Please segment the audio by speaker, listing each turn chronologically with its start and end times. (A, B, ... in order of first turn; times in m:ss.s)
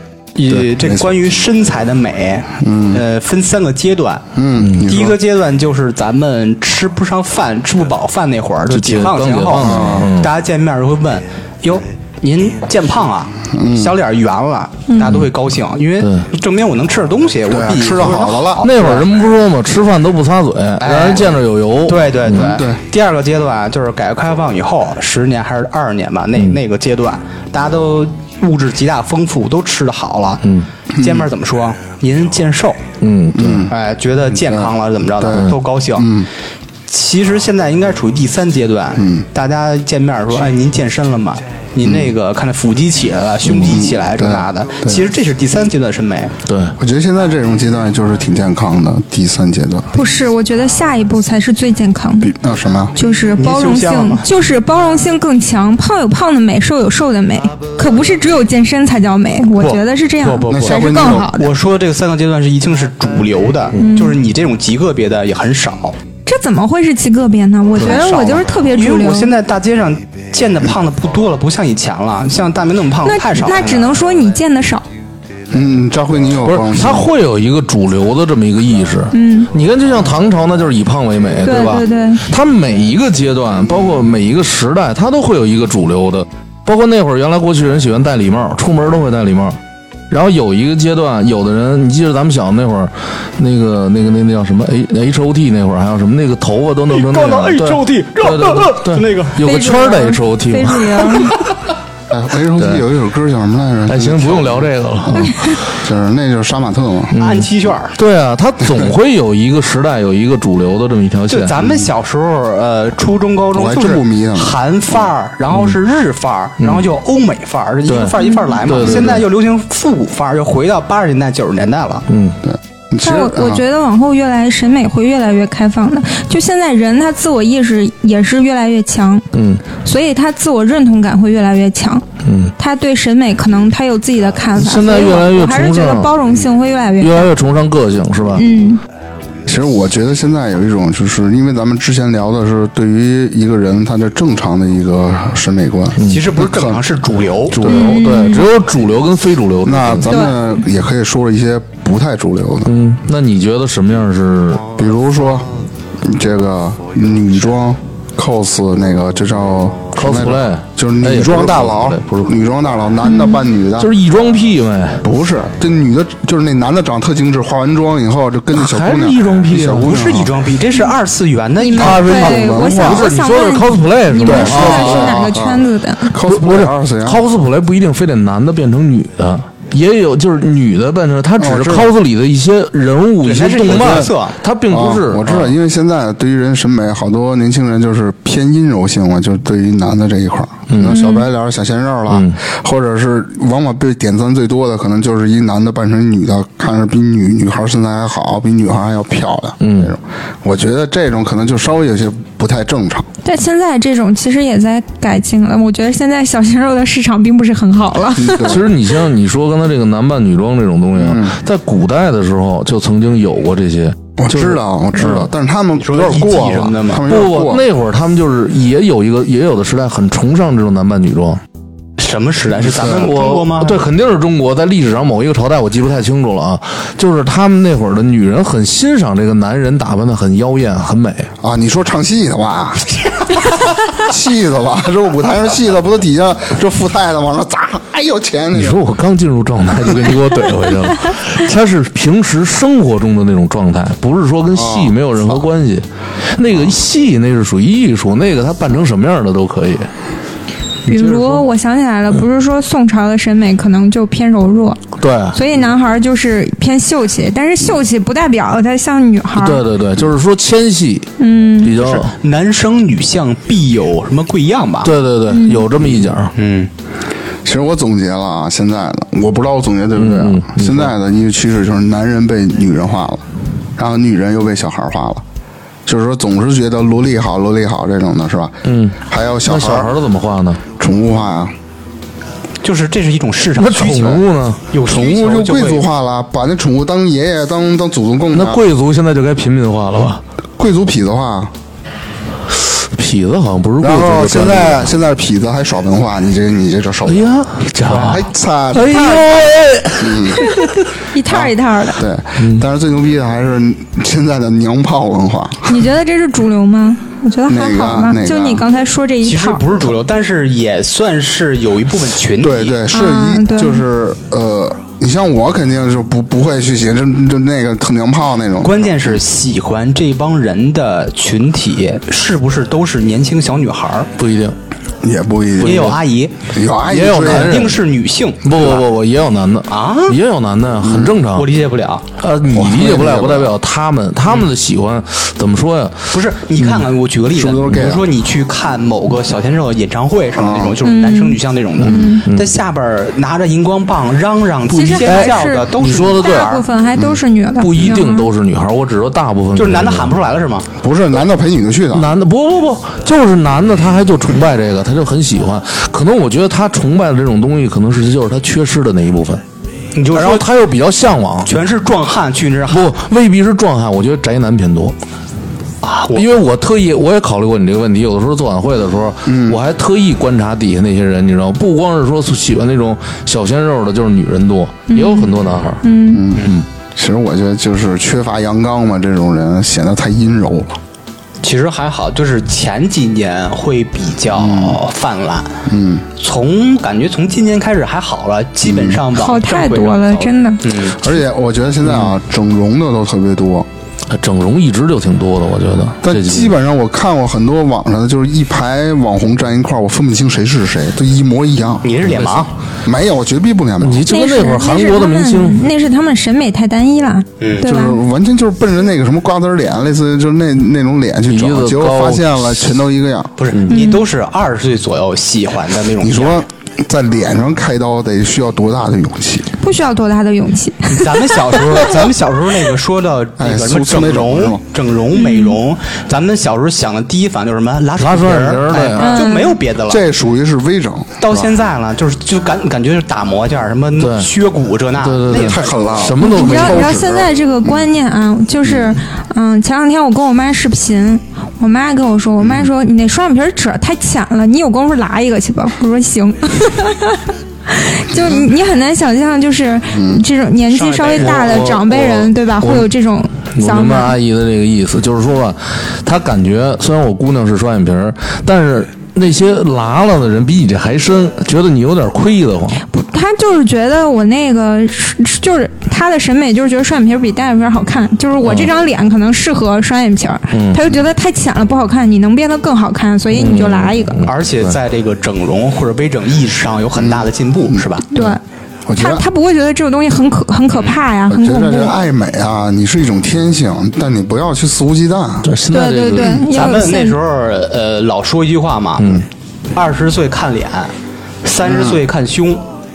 0:00.4-0:04.2 A
0:00.8-0:01.2 B
0:02.6-0:03.0 B
0:04.4-0:05.2 B
0:04.6-0:04.9 C
0:04.8-0:19.1 A
0:08.7-0:10.3 C
0:09.6-0:10.1 B
0:13.5-0:14.0 B
0:14.9-0:15.1 D
0:15.0-0:15.3 C
0:16.0-0:16.3 C
0:17.5-0:18.7 B
0:18.6-0:22.6 C
0:20.8-0:32.8 A
0:22.3-0:22.8 B
0:33.0-0:33.7 C
0:33.3-0:33.7 B
0:33.7-0:36.2 A
0:34.5-0:36.3 B
0:36.9-0:46.4 A
0:39.0-0:39.2 B
0:41.8-0:42.1 B
0:43.5-0:43.7 C
0:43.5-0:45.0 B
0:46.5-0:46.8 C
0:46.8-0:49.9 B
0:49.9-0:52.4 D
0:52.2-0:52.9 B
0:53.0-1:01.5 D
0:53.4-0:54.3 A
0:59.6-1:06.0 A
1:00.5-1:01.3 B
1:03.8-1:04.2 D
1:06.3-1:09.3 D
1:07.8-1:13.9 A
1:13.0-1:14.8 D
1:15.5-1:17.1 B
1:16.4-1:29.6 C
1:19.1-1:19.5 D
1:21.4-1:22.2 D
1:30.1-1:41.3 C
1:36.9-1:39.4 A
1:39.4-1:41.4 D
1:42.1-1:47.2 B
1:43.9-1:45.6 C
1:47.1-1:51.5 C
1:47.2-1:48.0 A
1:51.3-2:02.1 A
1:53.5-1:54.6 B
1:56.6-1:56.9 C
1:57.9-1:59.2 C
1:58.2-1:58.6 D
2:02.1-2:02.4 C
2:02.4-2:03.6 B
2:03.0-2:12.0 D
2:09.3-2:09.6 C
2:12.2-2:12.5 C
2:12.6-2:17.4 D
2:14.6-2:16.2 C
2:17.0-2:18.4 C
2:18.4-2:18.8 D
2:19.5-2:26.8 B
2:26.0-2:26.2 C
2:26.1-2:27.7 A
2:27.5-2:30.2 C
2:27.7-2:28.5 D
2:29.6-2:32.7 B
2:30.1-2:30.4 D
2:32.7-2:34.6 C
2:34.8-2:35.5 B
2:36.0-2:43.9 B
2:40.0-2:42.3 C
2:43.0-2:43.4 D
2:43.8-2:45.0 C
2:45.0-2:50.4 B
2:48.5-2:50.0 C
2:49.8-2:52.3 A
2:51.6-2:56.2 D
2:51.8-2:55.2 C
2:51.8-2:53.1 B
2:54.2-2:57.2 B
2:56.2-3:05.5 C
3:01.4-3:01.9 B
3:03.2-3:04.4 A
3:03.7-3:04.1 B
3:04.7-3:23.1 B
3:10.7-3:11.0 C
3:10.8-3:11.3 D
3:12.1-3:12.4 C
3:19.6-3:19.9 C
3:23.2-3:28.6 D
3:28.2-3:28.7 B
3:28.4-3:35.3 C
3:31.0-3:31.4 B
3:34.2-3:37.7 B
3:35.8-3:37.0 A
3:37.0-3:41.4 C
3:42.0-3:43.9 A
3:42.8-3:43.1 B
3:42.9-3:51.3 C
3:51.4-3:58.8 B
3:58.5-4:09.9 C
4:04.5-4:05.4 B
4:10.9-4:14.8 D
4:10.9-4:11.4 C
4:15.0-4:15.4 C
4:15.3-4:19.6 D
4:19.4-4:21.1 C
4:21.2-4:21.8 D
4:21.6-4:22.1 C
4:21.8-4:25.0 A
4:24.8-4:26.3 C
4:25.3-4:25.7 D
4:26.4-4:26.7 A
4:27.4-4:33.2 B
4:30.0-4:30.9 C
4:33.8-4:35.2 B
4:35.9-4:39.9 B
4:38.6-4:40.6 C
4:40.8-4:41.5 B
4:42.6-4:45.9 A
4:43.6-4:44.6 C
4:44.8-4:48.6 B
4:48.3-4:50.2 C
4:50.6-4:51.5 B
4:52.7-4:54.9 C
4:53.8-4:59.3 B
4:57.1-5:00.8 C
5:00.0-5:00.4 B
5:01.1-5:02.0 D
5:01.2-5:05.8 B
5:02.4-5:02.6 C
5:05.7-5:09.6 D
5:07.5-5:08.6 B
5:09.2-5:12.8 A
5:12.4-5:19.0 B
5:12.9-5:13.8 D
5:18.6-5:24.1 A
5:24.2-5:24.6 C
5:25.0-5:27.7 B
5:25.6-5:26.0 C
5:25.6-5:26.3 A
5:26.9-5:27.8 C
5:27.1-5:28.9 A
5:28.4-5:31.5 C
5:29.7-5:30.2 A
5:30.8-5:31.2 B
5:31.3-5:32.1 A
5:32.2-5:36.9 C
5:32.5-5:33.6 B
5:36.1-5:46.7 A
5:37.3-5:38.1 B
5:37.7-5:37.9 C
5:40.4-5:40.8 B
5:40.8-5:42.2 D
5:41.8-5:42.5 C
5:44.7-5:48.3 D
5:45.0-5:46.5 C
5:47.6-5:50.1 C
5:49.6-5:50.7 A
5:50.8-5:52.1 B
5:51.9-5:59.4 C
6:00.0-6:00.5 A
6:00.1-6:01.5 C
6:01.4-6:02.9 A
6:02.7-6:05.0 C
6:05.8-6:06.3 A
6:06.1-6:15.8 C
6:09.3-6:09.6 B
6:14.9-6:16.3 D
6:16.1-6:20.8 B
6:21.4-6:25.6 A
6:24.4-6:24.8 B
6:25.7-6:26.1 B
6:26.2-6:31.0 A
6:28.6-6:29.0 B
6:29.1-6:30.7 D
6:31.0-6:33.7 B
6:34.1-6:36.6 C
6:36.0-6:41.9 B
6:41.8-6:42.5 A
6:42.8-6:44.1 B
6:43.8-6:45.7 C
6:44.1-6:48.0 D
6:47.4-6:47.7 A
6:47.6-6:53.4 B
6:51.3-6:52.7 C
6:53.4-6:56.4 A
6:53.5-6:53.8 C
6:53.7-6:54.0 D
6:56.0-6:59.5 B
6:59.6-7:01.8 D
7:00.9-7:10.1 A
7:03.4-7:04.6 B
7:05.1-7:05.6 D
7:08.0-7:09.3 C
7:08.9-7:09.6 D
7:09.8-7:11.5 B
7:11.2-7:16.1 A
7:14.0-7:14.3 C
7:15.0-7:17.0 C
7:15.3-7:17.8 B
7:16.2-7:34.2 D
7:18.6-7:19.0 B
7:22.4-7:22.7 B
7:28.1-7:28.5 B
7:29.9-7:30.2 B
7:30.7-7:31.7 A
7:31.1-7:32.9 C
7:33.6-7:42.8 C
7:42.9-7:54.2 D
7:48.4-7:48.7 C
7:50.5-7:50.8 C
7:53.3-7:54.8 C
7:54.3-7:58.1 A
7:57.0-7:57.8 B
7:58.1-7:58.4 D
7:58.9-7:59.3 B
7:59.0-8:02.0 D
8:01.3-8:05.5 B
8:05.4-8:06.8 C
8:05.7-8:07.2 D
8:06.5-8:09.2 A
8:09.0-8:09.2 C
8:09.7-8:10.9 A
8:11.4-8:12.6 A
8:11.6-8:12.0 B